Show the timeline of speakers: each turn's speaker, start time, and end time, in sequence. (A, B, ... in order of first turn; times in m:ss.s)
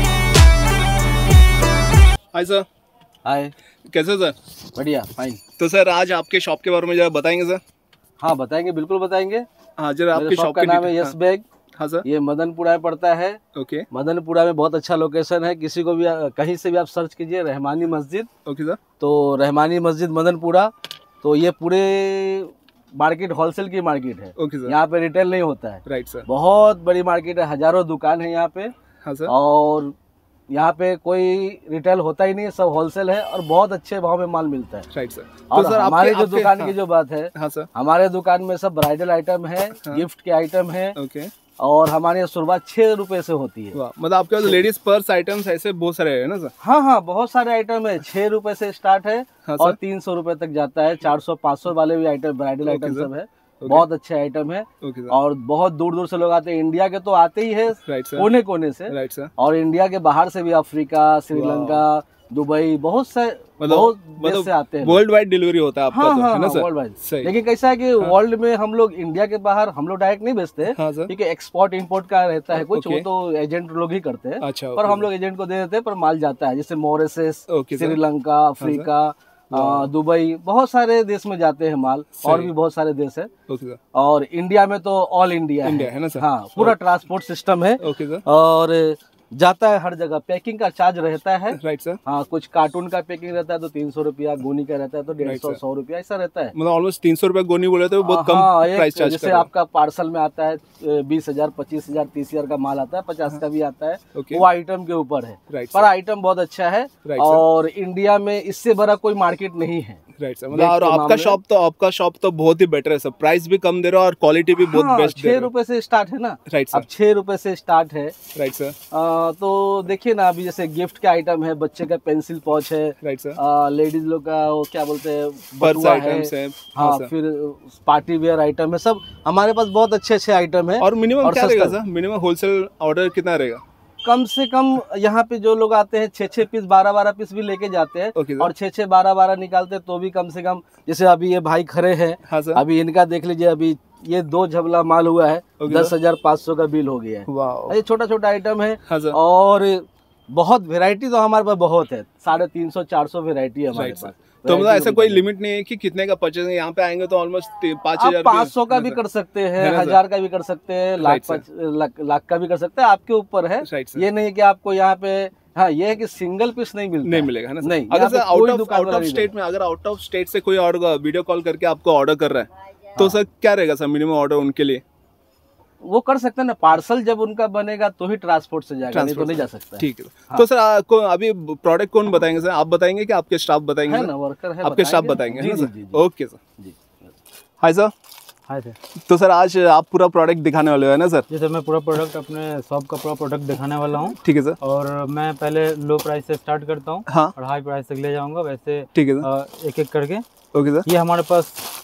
0:02.3-0:02.6 A
0:03.2-0:03.5 B
0:03.9-0:04.4 A
0:04.7-0:05.4 B
0:05.6-0:07.6 A
0:08.2-0:09.4 B
0:09.8-0:11.2 A
0:10.1-0:11.4 B
0:11.7-0:12.0 A
0:12.0-0:13.4 B
0:13.5-0:13.9 A
0:13.9-0:18.3 B
0:18.4-0:18.8 A
0:19.0-0:20.7 B
0:21.2-0:28.7 B
0:24.4-0:24.8 A
0:25.8-0:26.2 A
0:29.0-0:29.3 A
0:29.3-0:29.9 B
0:30.5-0:34.9 B
0:34.9-0:36.7 A
0:35.5-0:41.0 B
0:37.3-0:37.7 A
0:40.9-0:41.3 A
0:41.6-0:43.8 B
0:43.7-0:46.5 A
0:46.6-1:05.0 B
0:49.4-0:49.8 A
0:52.6-0:53.9 A
0:54.8-0:55.2 A
0:57.8-0:58.3 A
0:58.9-0:59.3 A
1:01.3-1:01.8 A
1:03.6-1:07.3 A
1:05.9-1:23.3 B
1:10.7-1:11.1 A
1:12.5-1:13.1 A
1:14.4-1:15.1 A
1:17.5-1:18.0 A
1:18.6-1:18.9 A
1:19.5-1:19.9 A
1:22.2-1:22.5 A
1:23.5-1:23.8 A
1:23.9-1:36.5 B
1:25.6-1:26.8 A
1:27.8-1:28.2 A
1:31.5-1:32.0 A
1:35.2-1:35.6 A
1:36.5-1:39.5 A
1:38.0-1:51.4 B
1:44.1-1:44.4 A
1:45.5-1:45.9 A
1:47.0-1:47.4 A
1:50.2-1:55.5 A
1:54.6-1:58.2 B
1:56.5-1:56.9 A
1:58.3-1:58.8 A
1:58.9-2:11.8 B
2:03.0-2:03.4 A
2:05.6-2:07.1 A
2:10.8-2:13.6 A
2:14.0-2:35.2 B
2:18.1-2:18.5 A
2:22.3-2:22.6 A
2:25.6-2:25.9 A
2:27.3-2:27.8 A
2:28.9-2:29.2 A
2:33.7-2:39.0 A
2:38.0-2:49.3 B
2:39.6-2:40.0 A
2:41.0-2:41.4 A
2:43.6-2:44.1 A
2:47.0-2:54.8 A
2:55.8-3:00.4 B
2:58.9-3:04.1 A
3:03.8-3:06.0 B
3:04.6-3:06.4 A
3:06.6-3:06.9 B
3:07.6-3:07.9 A
3:08.5-3:08.8 C
3:09.0-3:11.2 A
3:11.3-3:20.2 C
3:14.2-3:14.6 A
3:17.1-3:17.3 A
3:18.9-3:19.3 A
3:20.5-3:20.9 A
3:20.8-3:21.7 C